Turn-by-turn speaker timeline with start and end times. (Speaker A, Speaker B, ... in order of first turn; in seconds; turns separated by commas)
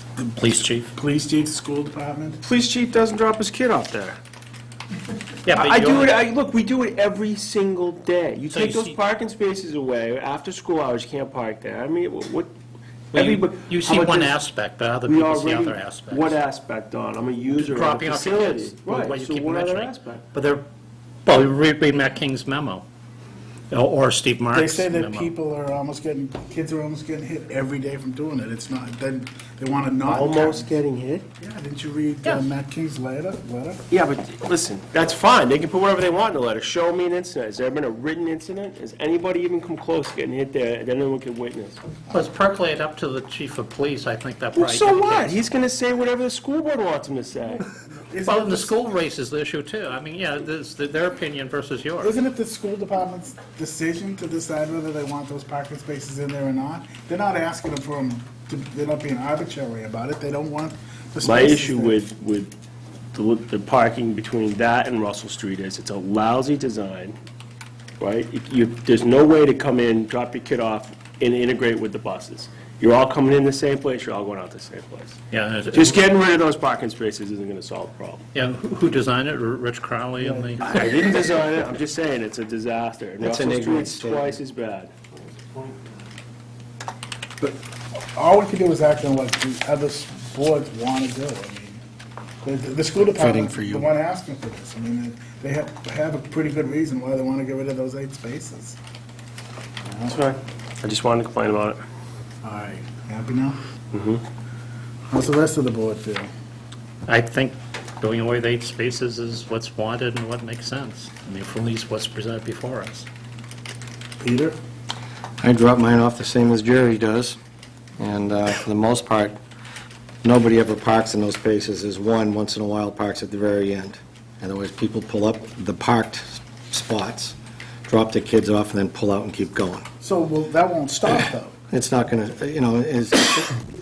Speaker A: 0.2-2.4, Speaker B: 0.3-0.9, Speaker C: 2.4-4.2, Speaker B: 5.5-6.2, Speaker C: 5.5-12.5, Speaker B: 8.5-9.0, Speaker C: 13.1-14.4, Speaker B: 13.1-16.4, Speaker C: 15.1-20.2, Speaker B: 17.5-20.6, Speaker B: 21.2-22.9, Speaker B: 23.7-25.3, Speaker A: 24.5-30.7, Speaker C: 30.1-31.3, Speaker A: 31.4-33.9, Speaker C: 33.9-41.8, Speaker B: 42.1-45.4, Speaker C: 44.6-47.6, Speaker A: 47.6-48.9, Speaker B: 48.2-52.2, Speaker A: 52.0-62.0, Speaker C: 61.2-62.5, Speaker C: 63.1-67.2, Speaker C: 68.0-75.2, Speaker B: 75.3-76.0, Speaker C: 75.7-78.2, Speaker B: 78.3-81.1, Speaker A: 80.2-81.0, Speaker C: 80.6-84.9, Speaker D: 83.2-84.4, Speaker A: 87.4-91.8, Speaker A: 92.4-98.8, Speaker D: 93.0-93.9, Speaker A: 99.9-100.2, Speaker C: 100.1-101.8, Speaker A: 102.4-103.6, Speaker C: 103.9-104.2, Speaker A: 105.1-106.3, Speaker B: 107.1-113.1, Speaker A: 114.2-114.6, Speaker D: 115.4-117.4, Speaker D: 118.0-119.4, Speaker D: 120.2-127.4, Speaker D: 127.9-129.9, Speaker A: 130.0-131.5, Speaker D: 131.7-133.6